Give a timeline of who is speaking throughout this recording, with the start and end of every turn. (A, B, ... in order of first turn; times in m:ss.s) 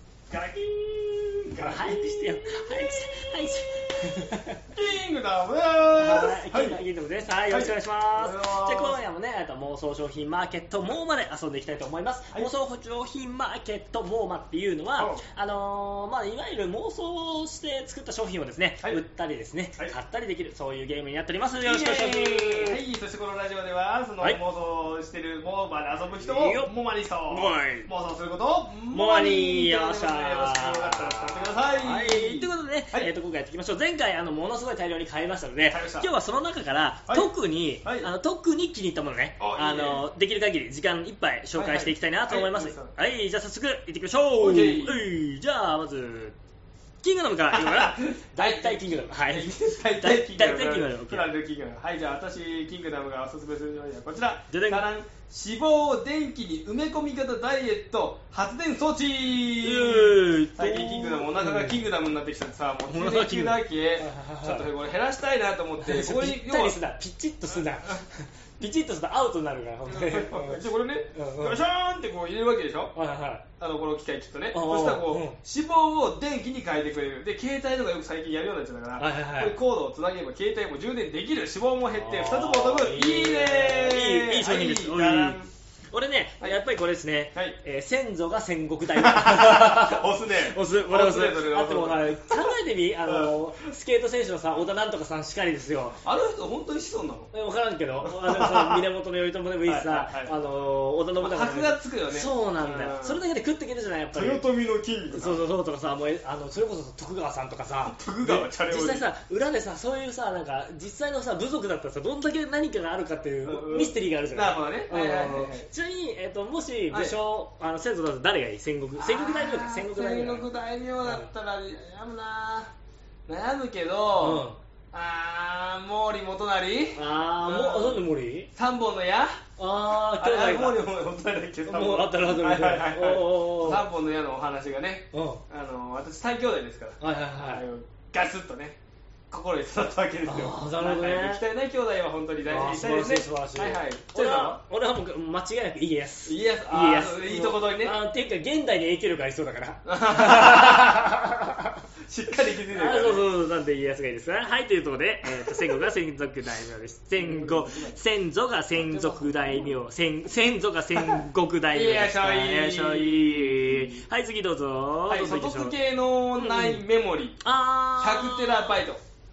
0:00.3-0:03.7 A
0:01.6-0:04.6 B
0:04.7-0:06.8 A
0:06.0-0:22.8 B
0:07.5-0:09.0 A
0:21.6-0:33.1 A
0:26.2-0:26.7 B
0:27.3-0:27.9 B
0:28.9-0:46.3 B
0:35.7-0:36.1 A
0:37.1-0:37.3 A
0:37.8-0:38.1 A
0:39.4-0:40.0 A
0:41.5-0:42.9 A
0:44.3-0:45.1 A
0:47.0-0:51.3 B
0:47.5-1:06.8 A
0:54.5-0:54.8 B
0:59.6-1:01.8 B
1:02.9-1:04.7 B
1:05.8-1:11.6 B
1:09.8-1:12.9 A
1:12.9-1:13.4 B
1:13.6-1:25.5 A
1:14.5-1:15.4 B
1:19.0-1:19.6 B
1:21.9-1:25.4 B
1:25.9-1:36.0 B
1:28.9-1:33.7 A
1:36.0-1:37.3 A
1:37.3-1:44.4 B
1:38.0-1:38.9 A
1:39.6-1:40.3 A
1:41.2-1:43.2 A
1:44.1-1:45.4 A
1:45.1-2:00.5 B
1:47.8-1:49.1 A
1:53.4-1:55.7 A
1:56.9-1:57.2 A
1:59.0-2:02.7 A
2:01.0-2:01.3 B
2:03.3-2:18.8 A
2:04.2-2:04.6 B
2:06.9-2:08.5 B
2:09.6-2:10.8 B
2:11.6-2:13.8 B
2:15.1-2:15.4 B
2:17.0-2:17.6 B
2:19.3-2:24.6 A
2:20.2-2:21.4 B
2:22.4-2:31.7 B
2:26.2-2:28.0 A
2:29.8-2:31.0 A
2:32.1-2:33.2 A
2:32.7-2:45.8 B
2:35.3-2:35.8 A
2:37.2-2:38.0 A
2:38.7-2:39.8 A
2:40.9-2:44.0 A
2:45.1-2:47.4 A
2:46.4-2:46.8 B
2:47.4-2:48.8 B
2:48.0-2:49.0 A